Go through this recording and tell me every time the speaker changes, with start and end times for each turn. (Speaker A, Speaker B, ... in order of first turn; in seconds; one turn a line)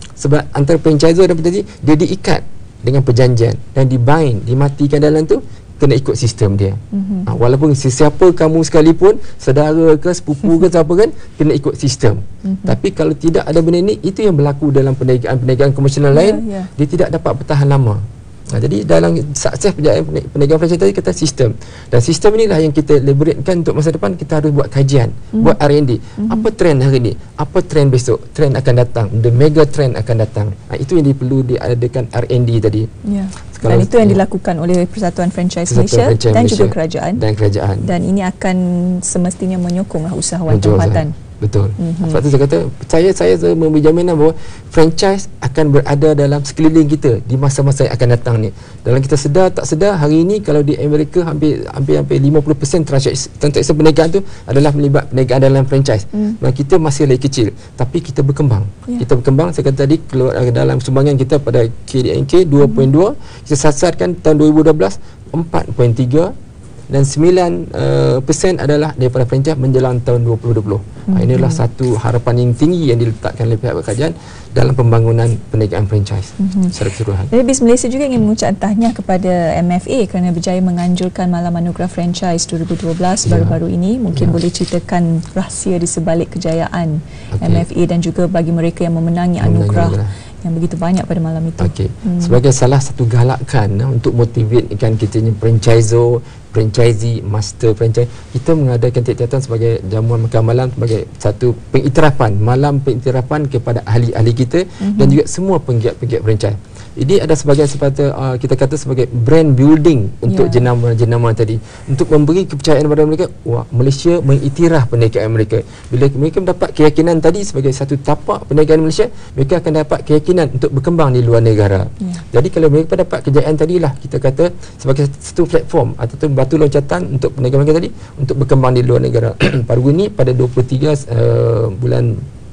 Speaker A: 0.2-32.9
Speaker B: 6.9-7.3
Speaker B: 12.4-12.8
Speaker B: 16.1-16.7
Speaker B: 26.2-26.5
Speaker B: 33.0-37.2
Speaker A: 33.6-34.2
Speaker A: 35.7-37.9
Speaker B: 37.8-41.1
Speaker A: 40.5-66.3
Speaker B: 41.8-42.2
Speaker B: 62.6-62.9
Speaker A: 66.9-77.3
Speaker B: 71.1-71.6
Speaker B: 76.4-76.8
Speaker B: 77.3-92.4
Speaker A: 83.2-83.6
Speaker A: 84.1-84.4
Speaker A: 87.3-87.7
Speaker A: 89.4-90.1
Speaker A: 91.6-132.2
Speaker B: 104.8-105.2
Speaker B: 110.3-110.7